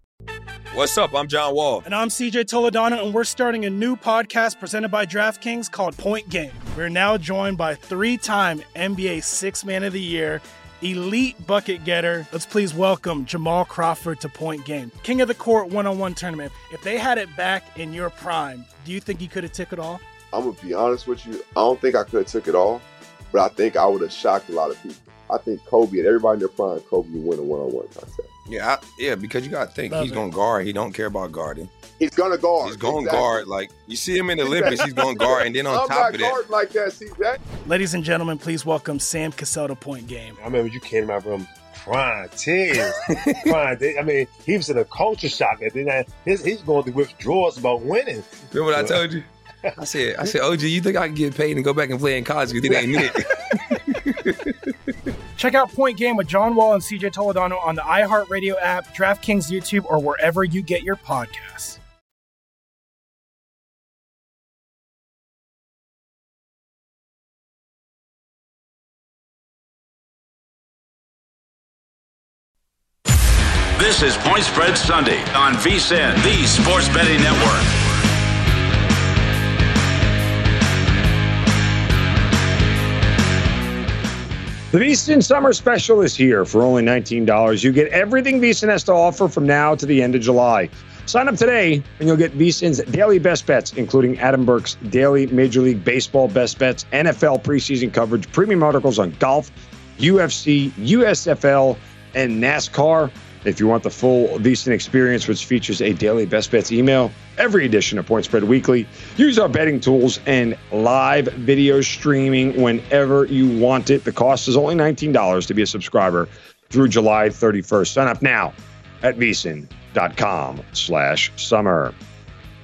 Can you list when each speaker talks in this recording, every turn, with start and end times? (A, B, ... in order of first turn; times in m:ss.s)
0:00.7-0:01.8 A
0:01.8-0:20.0 B
0:20.3-0:28.3 C
0:28.5-0:31.7 A
0:29.9-0:30.2 B
0:32.0-0:33.4 C
0:32.6-0:36.4 A
0:34.4-0:37.4 C
0:37.6-0:40.4 B
0:40.4-0:49.0 D
0:43.1-0:43.5 A
0:48.5-0:49.2 A
0:49.8-0:54.4 A
0:52.7-0:53.0 D
0:55.4-1:01.8 B
1:13.7-1:18.0 E
1:24.7-2:02.0 F